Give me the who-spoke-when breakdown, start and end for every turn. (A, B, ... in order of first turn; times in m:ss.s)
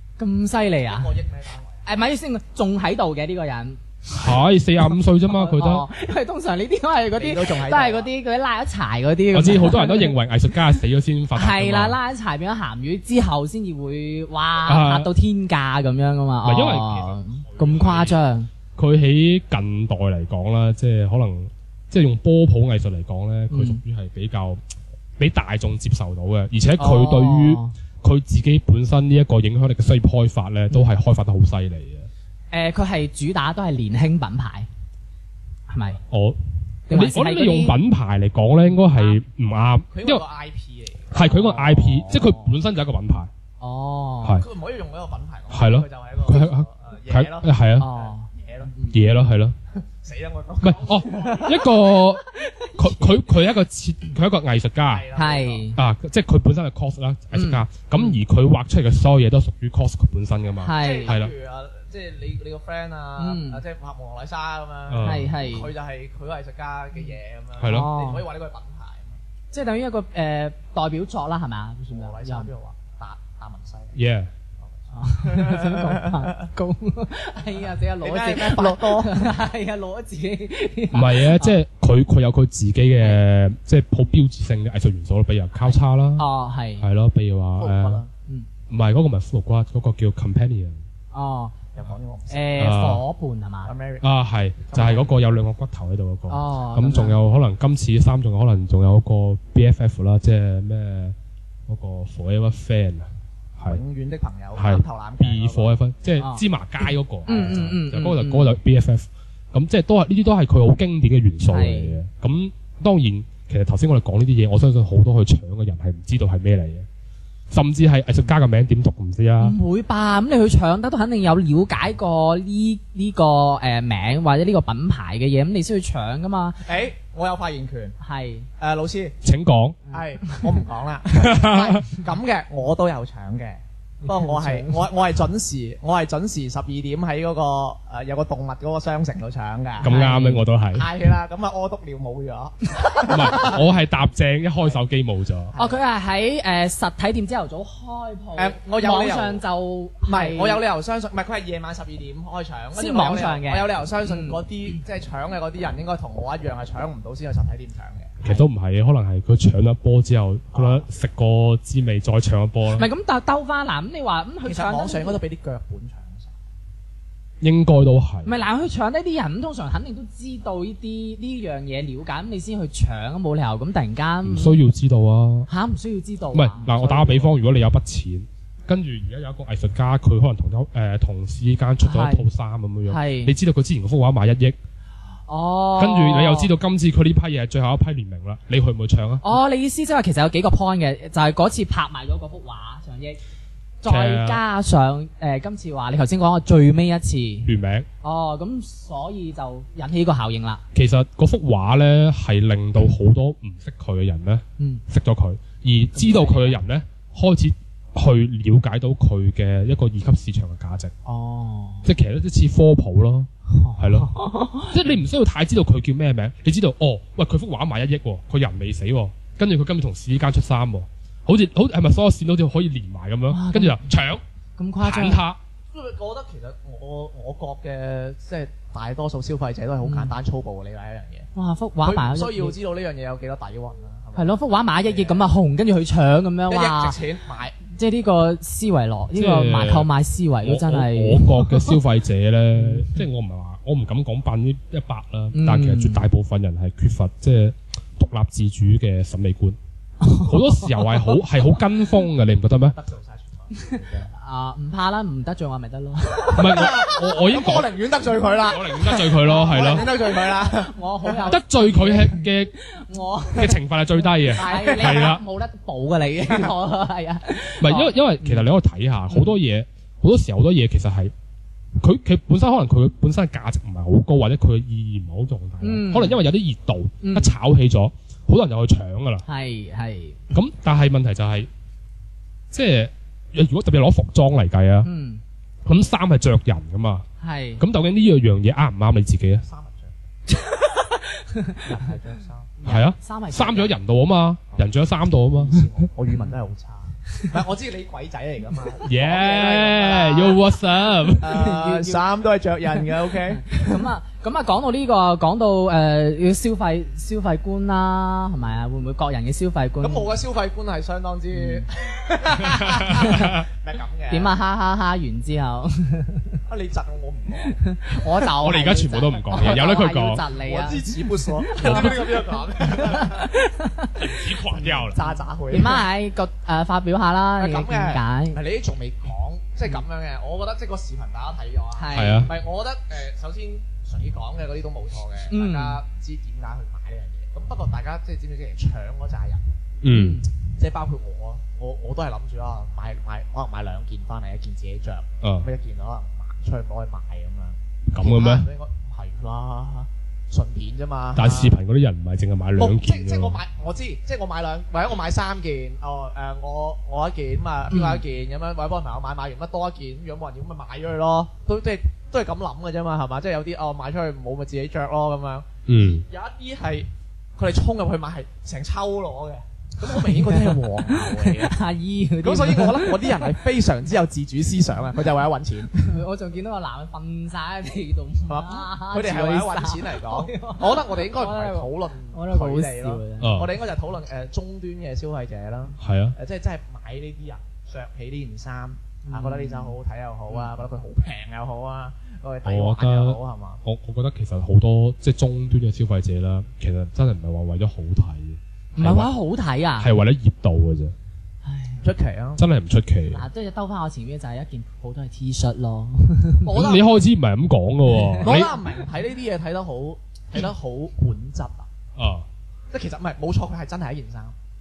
0:00.2-0:01.1 A
0:00.9-0:01.8 B
0:01.8-0:04.4 A
0:04.1-0:05.9 C
0:05.2-0:10.2 A
0:07.2-0:08.1 B
0:09.3-0:12.0 C
0:11.3-0:18.5 A
0:14.7-0:15.1 C
0:16.4-0:18.2 C
0:17.4-0:17.8 B
0:18.8-0:24.6 C
0:23.5-0:23.8 A
0:25.2-0:32.1 C
0:26.8-0:27.7 A
0:32.5-0:34.7 A
0:35.7-0:36.0 A
0:36.1-0:40.2 C
0:36.9-0:37.8 A
0:38.9-0:39.2 A
0:39.9-0:42.2 B
0:41.1-0:43.3 C
0:41.2-0:42.5 A
0:43.6-0:44.4 A
0:44.4-0:48.7 B
0:45.5-0:47.9 C
0:47.8-0:49.0 A
0:48.9-0:49.6 C
0:49.7-0:51.7 B
0:50.6-0:55.1 C
0:51.0-0:53.2 A
0:54.9-0:55.7 B
0:55.2-0:55.8 A
0:55.8-1:01.3 C
0:57.3-0:58.2 A
1:00.6-1:01.2 A
1:00.8-1:09.2 B
1:03.2-1:03.6 A
1:04.9-1:05.3 C
1:05.0-1:05.7 A
1:07.6-1:07.9 C
1:07.7-1:08.2 A
1:09.5-1:12.5 A
1:11.9-1:14.0 B
1:14.0-1:14.3 C
1:14.6-1:16.5 B
1:15.0-1:21.6 A
1:18.0-1:19.3 B
1:20.9-1:26.3 C
1:25.6-1:26.8 A
1:26.8-1:28.0 C
1:27.6-1:28.1 B
1:28.7-1:30.8 C
1:31.1-1:31.6 A
1:31.8-1:32.9 B
1:32.3-1:33.7 A
1:32.6-1:33.0 C
1:33.6-1:35.2 B
1:34.0-1:41.2 C
1:36.3-1:37.2 A
1:41.7-1:43.1 C
1:43.6-1:45.8 B
1:44.6-1:56.9 C
1:47.3-1:48.6 A
1:47.3-1:47.7 B
1:51.5-1:52.0 A
1:57.5-1:59.6 C
1:59.4-2:06.6 A
2:06.6-2:08.0 B
2:08.0-2:08.5 A
2:08.6-2:09.2 B
2:09.2-2:09.8 C
2:09.9-2:10.4 A
2:09.9-2:19.9 B
2:11.1-2:11.9 C
2:14.0-2:14.8 A
2:19.8-2:20.4 A
2:19.8-2:20.9 C
2:20.7-2:23.7 B
2:23.1-2:25.5 C
2:25.5-2:25.8 B
2:25.6-2:30.6 A
2:28.4-2:29.4 B
2:30.0-2:38.2 B
2:32.8-2:34.4 A
2:38.2-2:42.9 C
2:40.5-2:40.8 B
2:42.7-2:45.2 A
2:44.4-2:46.4 B
2:47.4-2:48.4 C
2:48.2-2:54.6 A
2:54.2-2:55.5 C
2:55.5-2:57.3 A
2:56.3-3:04.6 C
3:01.8-3:02.2 A
3:02.9-3:03.3 A
3:05.3-3:06.5 A
3:05.8-3:09.3 C
3:09.2-3:13.2 A
3:13.8-3:17.5 A
3:13.8-3:14.4 C
3:17.4-3:17.9 C
3:18.0-3:20.6 A
3:20.7-3:30.9 C
3:26.0-3:26.6 A
3:31.1-3:31.9 A
3:31.8-3:44.2 C
3:33.5-3:34.8 A
3:43.3-3:43.8 A
3:44.6-3:45.2 A
3:44.8-3:45.4 C
3:45.7-3:51.3 B
3:49.8-3:50.1 A
3:51.4-3:52.6 A
3:51.8-3:55.3 B
3:54.2-3:57.0 A
3:56.5-3:57.6 B
3:57.6-4:01.8 A
3:59.2-3:59.9 C
4:00.4-4:09.6 C
4:02.6-4:03.0 A
4:05.3-4:06.0 A
4:10.0-4:11.1 A
4:10.2-4:12.8 C
4:12.6-4:14.1 B
4:13.5-4:16.8 A
4:16.3-4:21.2 B
4:16.4-4:17.7 C
4:18.4-4:19.9 C
4:19.2-4:23.6 A
4:21.3-4:22.5 C
4:23.3-4:25.2 C
4:24.3-4:28.5 A
4:24.4-4:25.1 B
4:27.6-4:31.1 C
4:29.1-4:29.4 A
4:31.8-4:39.2 C
4:35.6-4:36.2 A
4:37.0-4:37.4 A
4:39.3-4:40.3 A
4:40.3-4:41.5 C
4:42.5-4:44.9 C
4:44.8-4:45.2 A
4:45.6-4:47.1 C
4:47.2-4:47.6 A
4:47.6-4:49.4 C
4:49.4-4:49.9 B
4:50.3-4:51.8 A
4:51.6-4:52.6 B
4:52.6-4:53.7 A
4:52.6-4:55.9 C
4:54.5-5:00.4 B
4:58.8-5:01.4 C
5:01.2-5:03.8 B
5:01.2-5:02.0 A
5:02.8-5:10.1 A
5:09.8-5:14.3 B
5:11.3-5:11.7 A
5:12.3-5:13.4 A
5:12.6-5:13.4 C
5:14.1-5:16.4 A
5:16.5-5:17.6 B
5:17.5-5:28.4 A
5:18.4-5:20.2 C
5:20.4-5:23.3 B
5:21.6-5:22.0 C
5:24.0-5:25.0 C
5:24.6-5:25.8 B
5:27.4-5:39.4 B
5:31.8-5:32.3 A
5:31.9-5:32.3 C
5:35.3-5:35.8 A
5:39.8-5:40.2 C
5:39.9-5:40.3 A
5:40.5-5:51.5 B
5:45.2-5:45.5 C
5:47.9-5:48.5 C
5:51.2-5:53.4 C
5:52.6-6:11.6 B
5:57.7-5:58.0 A
6:05.7-6:06.0 C
6:09.9-6:13.4 A
6:12.2-6:16.0 B
6:15.8-6:23.3 A
6:18.3-6:33.6 B
6:23.2-6:23.5 C
6:25.8-6:26.2 C
6:29.1-6:29.8 A
6:32.4-6:39.1 C
6:38.8-6:39.9 A
6:39.8-6:41.0 C
6:41.4-6:41.8 A
6:41.8-6:42.4 B
6:42.4-6:43.2 C
6:43.1-6:46.5 A
6:46.4-6:46.9 B
6:46.5-6:48.5 C
6:47.9-6:48.6 A
6:48.2-6:51.7 B
6:52.0-6:52.3 C
6:52.7-6:54.4 B